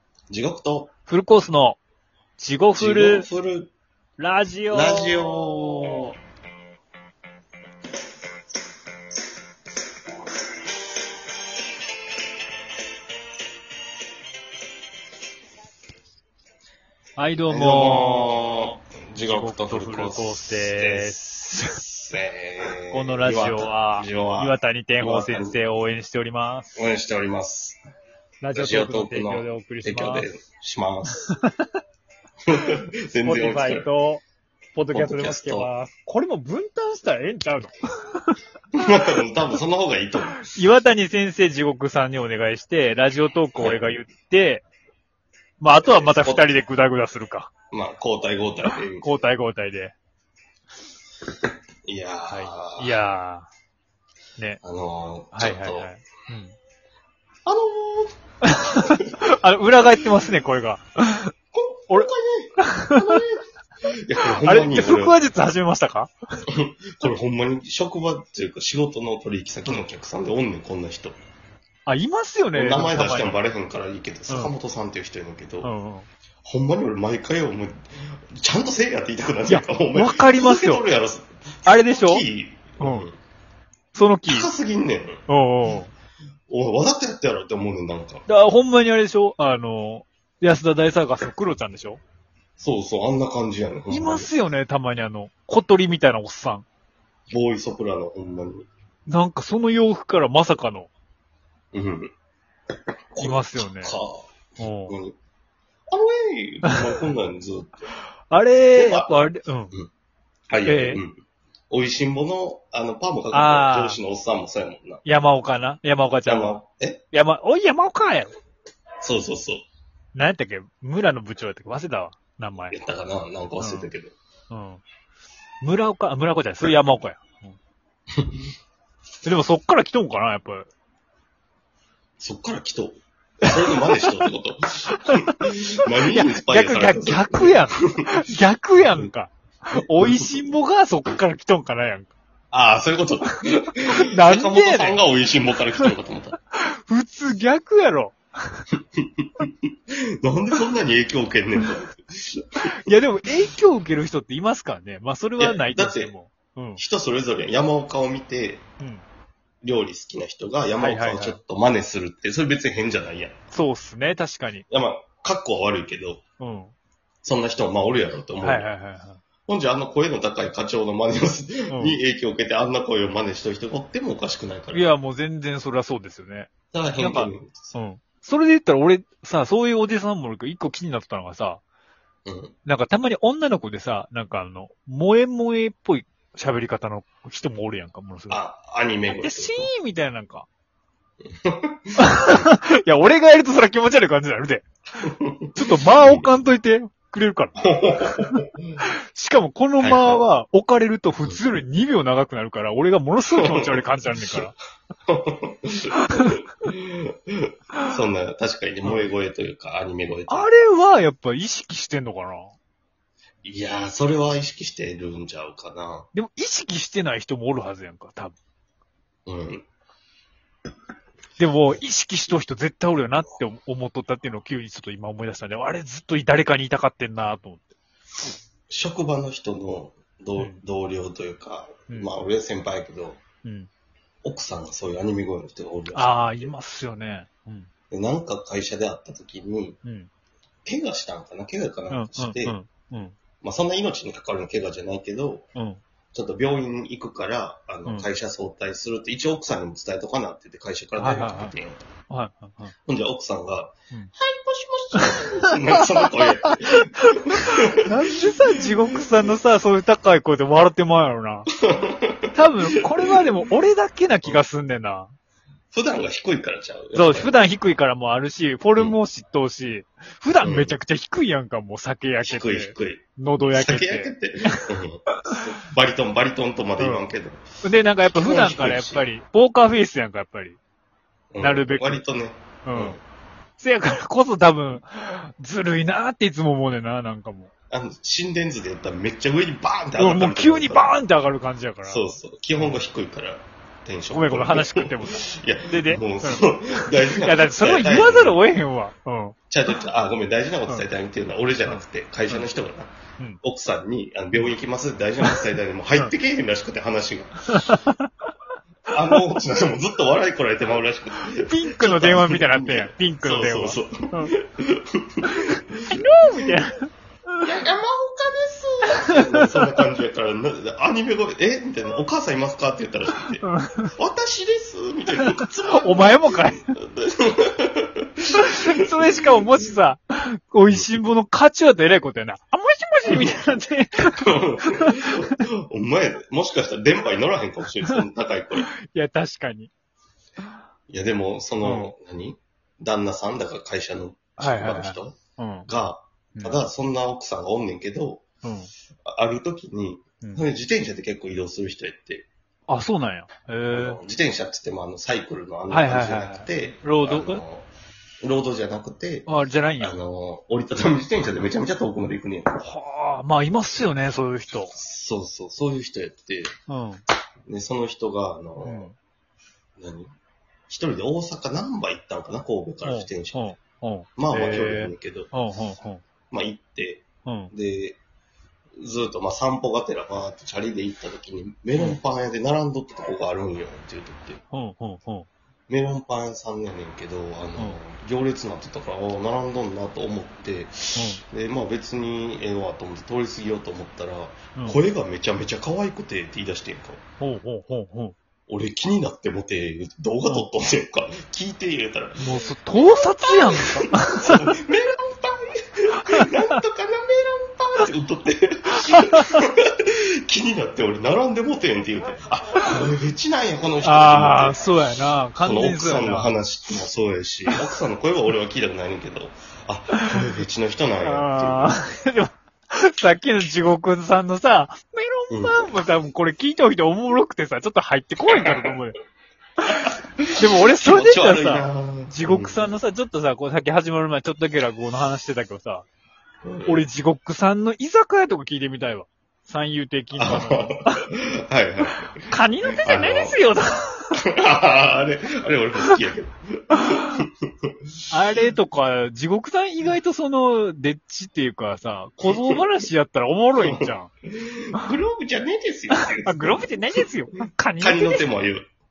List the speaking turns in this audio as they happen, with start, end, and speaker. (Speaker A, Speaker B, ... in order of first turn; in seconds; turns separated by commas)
Speaker A: 0.3-0.9, Speaker B: 1.1-1.8, Speaker B: 2.4-3.3, Speaker A: 2.8-3.7, Speaker B: 4.2-6.1, Speaker A: 4.7-6.1, Speaker B: 17.2-18.5, Speaker A: 17.5-25.6, Speaker B: 19.2-21.8, Speaker B: 22.9-26.8, Speaker A: 26.8-27.8, Speaker B: 28.4-30.3, Speaker A: 28.5-31.3, Speaker B: 31.3-31.5, Speaker A: 32.5-33.9, Speaker B: 33.2-34.2, Speaker B: 34.8-38.3, Speaker A: 34.9-35.7, Speaker A: 38.7-40.5, Speaker B: 40.5-44.6, Speaker A: 43.6-43.9, Speaker B: 45.6-47.5, Speaker A: 45.8-46.6, Speaker A: 47.7-49.1, Speaker B: 49.0-50.0, Speaker A: 51.9-53.0, Speaker B: 52.3-53.5, Speaker A: 54.6-55.9, Speaker B: 55.3-56.5, Speaker A: 57.5-58.1, Speaker B: 58.4-61.3, Speaker A: 58.7-59.1, Speaker A: 61.5-63.4, Speaker B: 61.9-63.2, Speaker A: 64.0-65.2, Speaker B: 64.4-66.1, Speaker A: 66.5-71.2, Speaker B: 71.9-73.4, Speaker A: 72.5-75.7, Speaker B: 75.6-76.1, Speaker A: 76.4-83.2, Speaker B: 79.5-80.9, Speaker B: 81.7-82.2, Speaker B: 82.8-83.1, Speaker B: 83.9-84.5, Speaker A: 84.3-85.2, Speaker B: 85.3-85.9, Speaker A: 86.5-88.2, Speaker B: 88.3-92.0, Speaker A: 92.6-94.3, Speaker B: 93.9-96.7, Speaker A: 97.3-98.7, Speaker B: 99.1-100.9, Speaker A: 101.7-102.1, Speaker A: 103.1-104.3, Speaker B: 103.2-104.0, Speaker B: 104.6-105.0, Speaker A: 104.9-105.2, Speaker A: 105.9-107.8, Speaker B: 106.7-107.0, Speaker B: 108.3-109.7, Speaker A: 108.8-109.9, Speaker A: 110.5-111.2, Speaker B: 110.7-111.0, Speaker A: 111.7-115.1, Speaker B: 113.3-114.0, Speaker B: 115.0-116.6, Speaker A: 116.2-117.0, Speaker B: 117.1-118.3, Speaker A: 119.0-119.7, Speaker B: 120.1-122.8, Speaker A: 122.7-124.2, Speaker B: 123.6-123.9, Speaker B: 124.5-124.8, Speaker B: 125.6-127.6, Speaker A: 128.2-128.4, Speaker B: 129.2-130.7, Speaker A: 132.2-138.1, Speaker B: 133.5-134.1, Speaker B: 135.0-142.2, Speaker A: 139.8-140.4, Speaker A: 142.5-146.4, Speaker B: 143.9-145.0, Speaker B: 146.6-148.6, Speaker A: 149.0-152.6, Speaker B: 152.7-156.8, Speaker A: 155.4-156.1, Speaker A: 156.8-158.6, Speaker B: 158.8-159.1, Speaker A: 159.6-163.4, Speaker B: 160.8-161.4, Speaker B: 163.5-164.7, Speaker A: 164.7-166.2, Speaker B: 166.4-166.7, Speaker A: 167.2-168.7, Speaker B: 168.4-169.2, Speaker A: 169.5-174.9, Speaker B: 171.7-172.0, Speaker B: 174.7-181.6, Speaker A: 176.7-177.8, Speaker A: 182.3-182.5, Speaker B: 182.7-188.4, Speaker A: 188.3-189.7, Speaker B: 189.1-190.5, Speaker A: 191.3-192.3, Speaker B: 192.0-194.7, Speaker A: 195.2-196.2, Speaker B: 195.6-204.6, Speaker A: 197.6-198.5, Speaker A: 199.8-200.2, Speaker A: 203.4-204.4, Speaker A: 205.1-210.5, Speaker B: 205.9-206.4, Speaker B: 210.3-212.6, Speaker A: 213.4-216.1, Speaker B: 216.1-218.4, Speaker A: 219.3-219.7, Speaker B: 221.4-227.8, Speaker A: 228.7-233.2, Speaker B: 231.9-232.1, Speaker B: 233.4-233.7, Speaker A: 234.2-236.5, Speaker B: 235.9-237.7, Speaker A: 237.9-239.8, Speaker B: 239.8-240.1, Speaker A: 240.7-242.6, Speaker B: 241.9-243.2, Speaker A: 243.4-245.5, Speaker B: 245.6-245.8, Speaker A: 246.1-251.8, Speaker B: 251.0-251.6, Speaker B: 252.1-252.7, Speaker A: 252.9-258.1, Speaker B: 254.9-256.8, Speaker B: 257.3-261.5, Speaker A: 261.6-262.4, Speaker B: 262.3-265.1, Speaker A: 265.7-267.4, Speaker B: 266.9-274.6, Speaker A: 270.4-270.8, Speaker A: 272.2-277.4, Speaker B: 276.8-277.1, Speaker B: 277.6-280.6, Speaker A: 278.1-279.1, Speaker A: 281.3-283.0, Speaker B: 281.4-282.0, Speaker B: 282.6-283.0, Speaker B: 283.6-287.5, Speaker A: 287.7-290.9, Speaker B: 290.0-292.8, Speaker A: 291.9-298.4, Speaker B: 294.1-299.4, Speaker A: 299.5-307.8, Speaker B: 301.7-302.5, Speaker B: 307.5-308.1, Speaker A: 308.9-316.6, Speaker B: 311.3-314.3, Speaker B: 315.2-317.4, Speaker A: 317.4-329.6, Speaker B: 319.1-319.8, Speaker B: 323.4-323.9, Speaker B: 325.2-326.7, Speaker B: 328.4-335.4, Speaker A: 330.6-331.1, Speaker A: 333.1-333.5, Speaker A: 334.2-338.7, Speaker B: 338.8-339.7, Speaker A: 340.9-348.2, Speaker B: 341.6-341.9, Speaker B: 344.4-345.7, Speaker B: 346.4-346.6, Speaker B: 348.4-348.7, Speaker A: 349.1-352.3, Speaker B: 352.7-354.0, Speaker A: 353.7-357.7, Speaker B: 355.7-357.4, Speaker A: 358.2-359.3, Speaker B: 359.3-360.0, Speaker A: 359.8-362.7, Speaker B: 362.6-364.8, Speaker A: 364.7-366.5, Speaker B: 366.7-367.0, Speaker A: 367.5-368.9, Speaker B: 368.6-369.0, Speaker A: 369.8-370.1, Speaker A: 370.7-373.6, Speaker B: 372.9-376.0, Speaker A: 374.2-375.3, Speaker A: 376.3-378.0, Speaker B: 377.2-377.5, Speaker A: 378.8-384.4, Speaker B: 384.5-385.3, Speaker A: 385.7-397.0, Speaker B: 391.0-391.2, Speaker B: 397.2-398.2, Speaker A: 398.5-414.7, Speaker B: 402.2-404.5, Speaker B: 408.9-409.2, Speaker B: 413.8-416.3, Speaker A: 415.4-421.8, Speaker B: 421.0-429.0, Speaker A: 425.3-425.7, Speaker A: 428.3-428.7, Speaker B: 429.7-435.9, Speaker A: 429.9-432.7, Speaker A: 436.4-436.9, Speaker B: 436.7-441.0, Speaker A: 440.1-443.4, Speaker B: 442.3-444.2, Speaker A: 444.2-447.3, Speaker B: 448.1-454.1, Speaker A: 452.3-452.6, Speaker A: 453.6-457.1, Speaker B: 456.0-458.3, Speaker A: 457.8-458.6